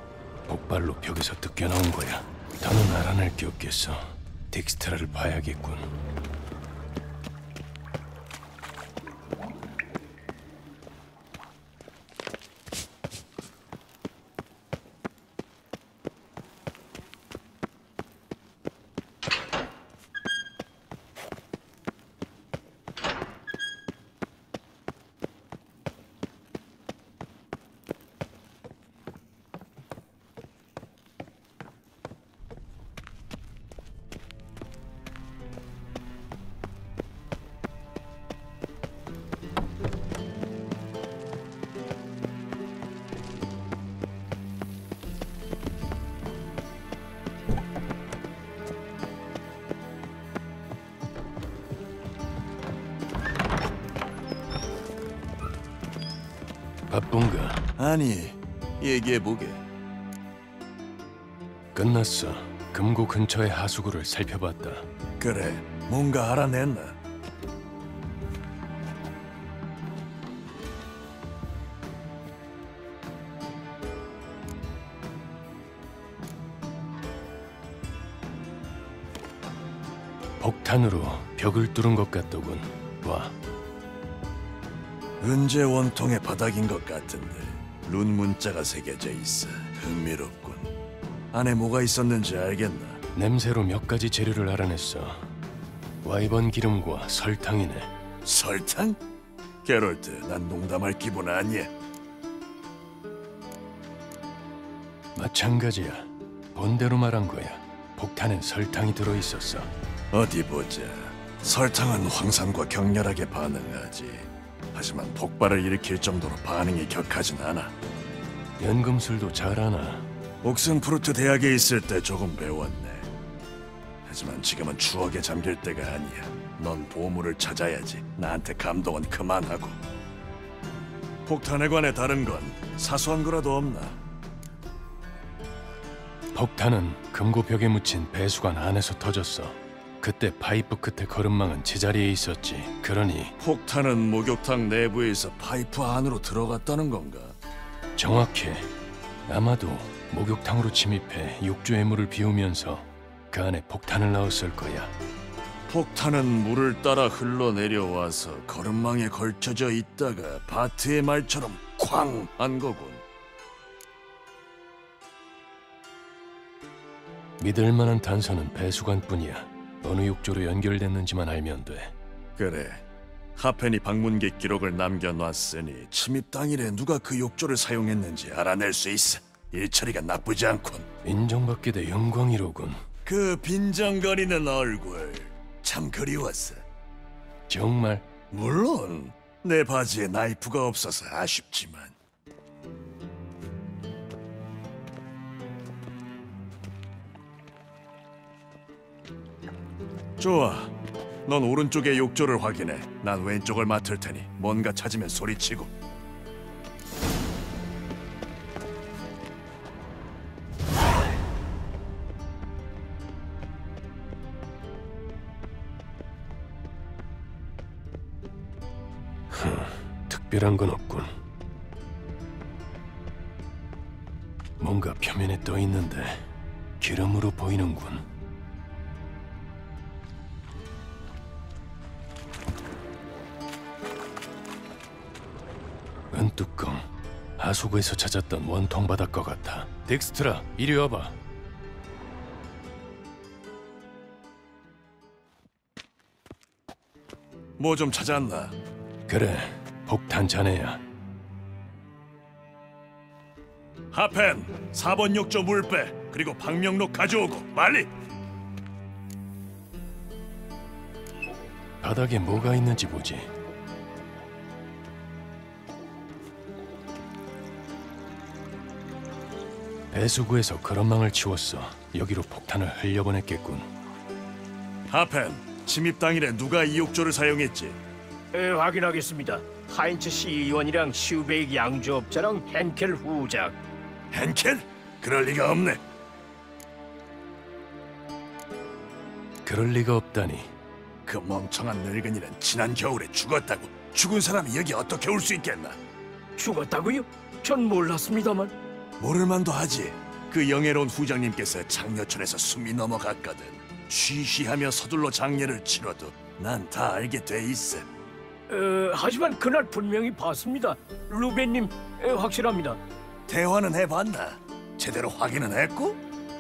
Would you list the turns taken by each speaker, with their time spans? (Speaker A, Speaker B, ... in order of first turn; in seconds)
Speaker A: 0.5-5.9, 56.9-57.6, 61.8-64.9, 80.4-83.3, 93.1-95.3, 96.0-97.9, 105.2-109.7, 118.6-120.1, 136.3-143.3, 148.0-148.7, 149.3-154.9, 167.4-171.9, 181.0-182.8, 187.5-188.1, 219.3-221.2, 224.6-226.3, 226.8-228.1, 236.1-241.2, 249.1-250.8, 261.8-263.3, 269.9-273.7, 289.4-290.5
Speaker B: 57.8-59.6, 65.2-67.0, 85.2-90.7, 91.3-93.0, 98.2-99.0, 99.6-101.7, 110.1-117.7, 120.4-123.1, 124.1-129.8, 131.3-134.0, 143.4-147.4, 155.7-163.0, 172.4-172.8, 173.4-180.9, 183.1-186.7, 188.3-191.9, 200.2-200.7, 201.3-205.7, 247.6-248.6, 253.9-257.9, 274.9-277.8, 284.1-285.8, 291.1-295.8, 299.0-307.9, 313.3-316.0
Speaker C: 278.3-283.6, 296.4-298.5, 308.5-312.8